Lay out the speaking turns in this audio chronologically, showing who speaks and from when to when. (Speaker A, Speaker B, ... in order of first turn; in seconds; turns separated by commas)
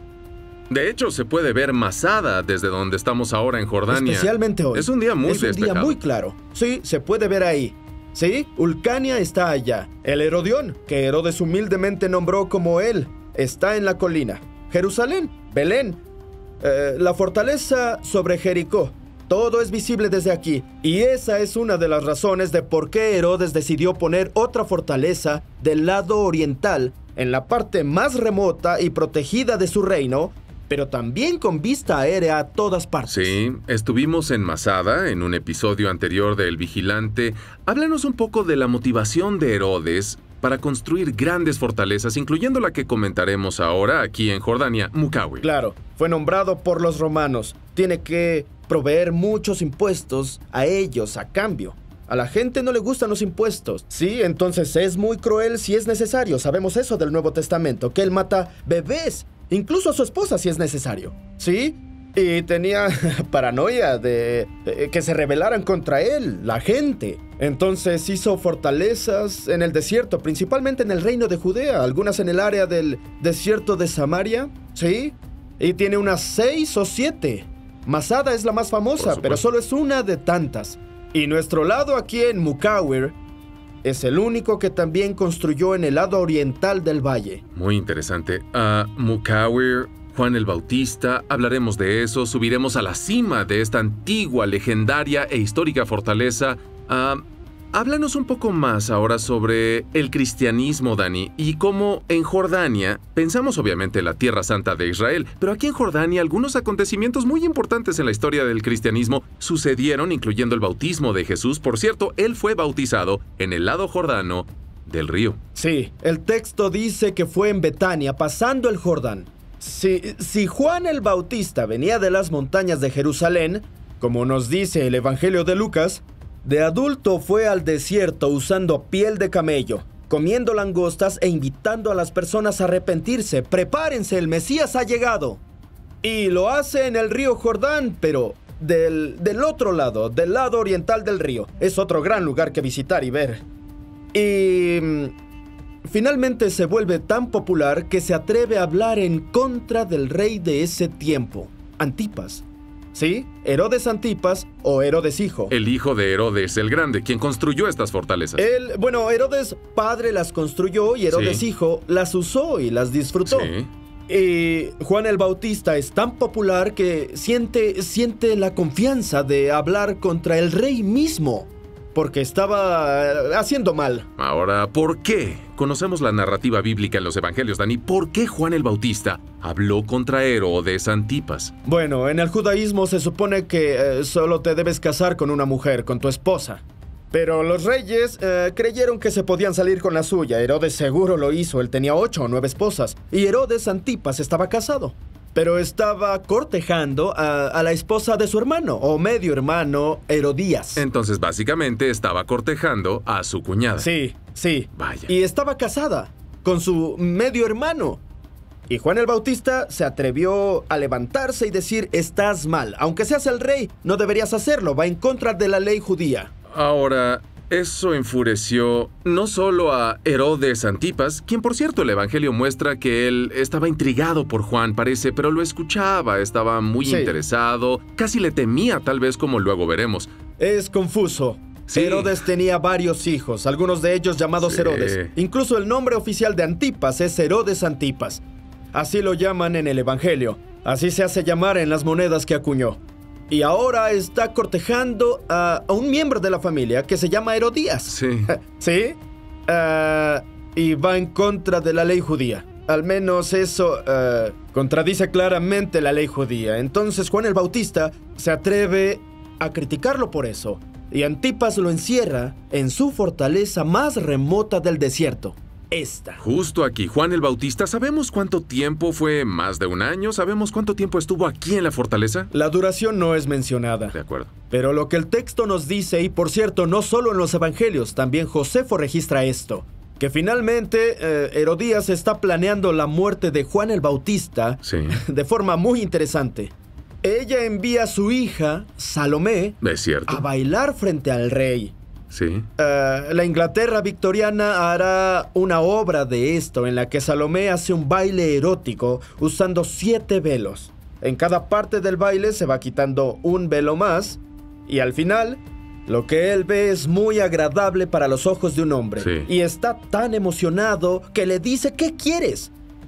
Speaker A: 0.7-6.0, Speaker B: 3.9-16.0, Speaker B: 16.6-33.4, Speaker A: 33.1-45.4, Speaker B: 45.4-83.2, Speaker A: 79.0-79.4, Speaker B: 83.8-87.4, Speaker A: 87.5-97.2, Speaker A: 97.7-115.4, Speaker B: 115.5-135.4, Speaker B: 136.0-143.4, Speaker B: 144.1-145.1, Speaker B: 145.8-155.5, Speaker A: 155.5-158.4, Speaker B: 158.4-163.5, Speaker A: 161.1-161.4, Speaker A: 163.3-163.7, Speaker B: 164.1-174.1, Speaker A: 174.2-181.5, Speaker B: 181.6-200.8, Speaker A: 200.8-203.9, Speaker B: 203.8-208.0, Speaker A: 204.7-205.1, Speaker B: 208.7-216.3, Speaker A: 216.5-230.1, Speaker B: 226.8-227.1, Speaker B: 230.4-238.2, Speaker A: 231.7-232.2, Speaker A: 234.4-235.1, Speaker B: 238.7-242.8, Speaker B: 243.3-266.2, Speaker A: 247.9-248.3, Speaker A: 266.2-272.3, Speaker B: 272.3-273.9, Speaker A: 273.9-274.3, Speaker B: 274.5-291.7, Speaker A: 284.6-285.0, Speaker A: 289.6-290.3, Speaker A: 292.1-292.5, Speaker B: 292.6-312.5, Speaker A: 309.0-309.3